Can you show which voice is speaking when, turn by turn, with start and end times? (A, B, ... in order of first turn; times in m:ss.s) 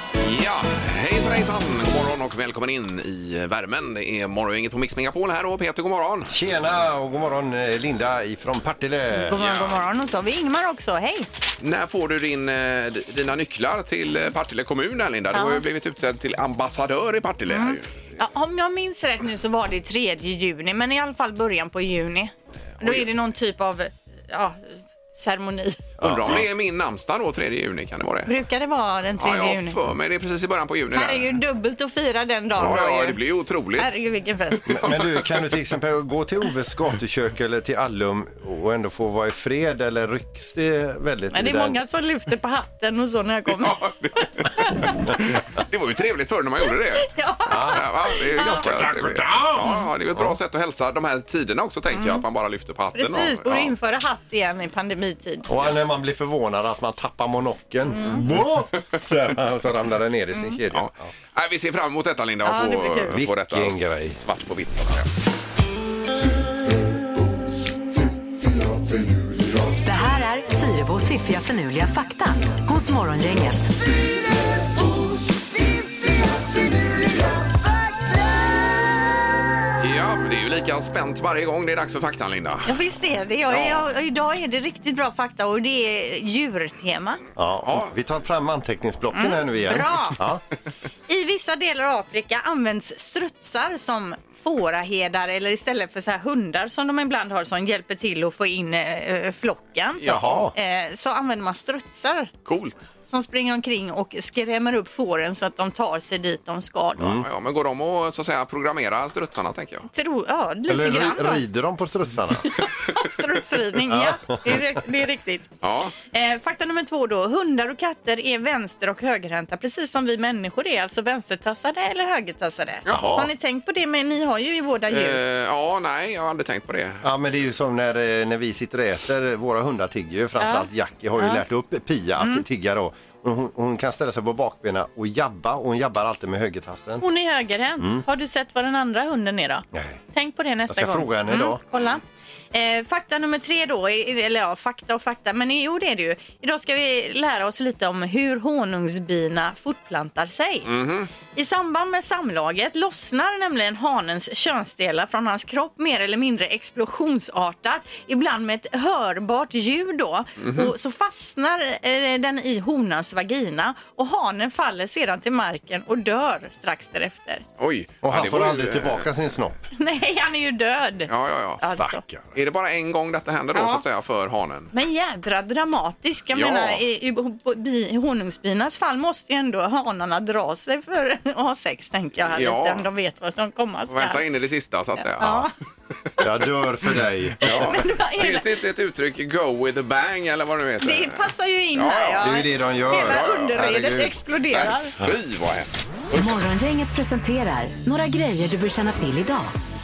0:00.2-0:06.3 A
0:06.3-0:09.4 B
0:09.1-0:11.3 C
0:09.3-0:09.8 A
0:11.6-0:17.9 A
0:15.3-0:15.6 C
0:17.5-0:25.8 C
0:26.0-0:26.4 B
0:26.0-0:28.3 A
0:28.3-0:29.8 C
0:29.2-0:31.3 A
0:30.9-0:33.2 C
0:32.6-0:34.0 A
0:33.8-0:34.8 C
0:34.6-0:35.4 A
0:34.7-0:41.8 B
0:41.3-0:43.8 C
0:43.6-0:53.7 A
0:47.1-0:48.6 C
0:47.5-0:47.8 B
0:48.6-0:49.5 B
0:49.6-0:49.9 C
0:51.9-0:52.2 C
0:52.9-0:55.5 C
0:55.5-1:01.1 B
0:57.9-0:58.2 C
1:00.7-1:05.1 A
1:02.4-1:03.2 C
1:03.1-1:04.2 B
1:09.8-1:13.7 D
1:19.8-1:22.7 A
1:22.7-1:27.2 C
1:27.4-1:30.4 B
1:27.6-1:27.9 A
1:29.1-1:30.2 C
1:31.1-1:42.3 C
1:40.0-1:40.5 A
1:40.0-1:40.5 B
1:42.4-1:42.8 A
1:43.1-1:47.1 C
1:47.0-1:47.2 B
1:47.1-1:49.9 A
1:49.9-1:51.4 C
1:50.7-1:52.5 B
1:52.4-2:05.2 C
1:53.9-1:54.6 B
1:55.6-1:55.9 A
2:02.8-2:03.3 A
2:02.9-2:03.3 B
2:04.9-2:07.0 A
2:07.0-2:17.0 B
2:10.4-2:11.4 C
2:12.2-2:12.4 C
2:17.0-2:22.0 C
2:19.7-2:20.0 B
2:20.7-2:21.6 B
2:22.5-2:30.7 C
2:30.6-2:31.1 A
2:31.3-2:47.4 C
2:40.4-2:40.7 A
2:47.6-2:49.1 A
2:48.0-2:49.6 B
2:49.8-2:52.0 C
2:51.1-2:54.7 A
2:53.5-2:53.8 C
2:54.7-3:04.2 C
2:56.3-2:56.8 A
3:02.3-3:02.8 A
3:03.9-3:05.5 A
3:05.0-3:05.5 C
3:06.2-3:07.4 B
3:07.4-3:12.4 A
3:07.4-3:08.5 C
3:10.8-3:14.9 C
3:12.2-3:14.2 B
3:13.0-3:13.5 A
3:14.5-3:16.4 A
3:16.2-3:19.5 D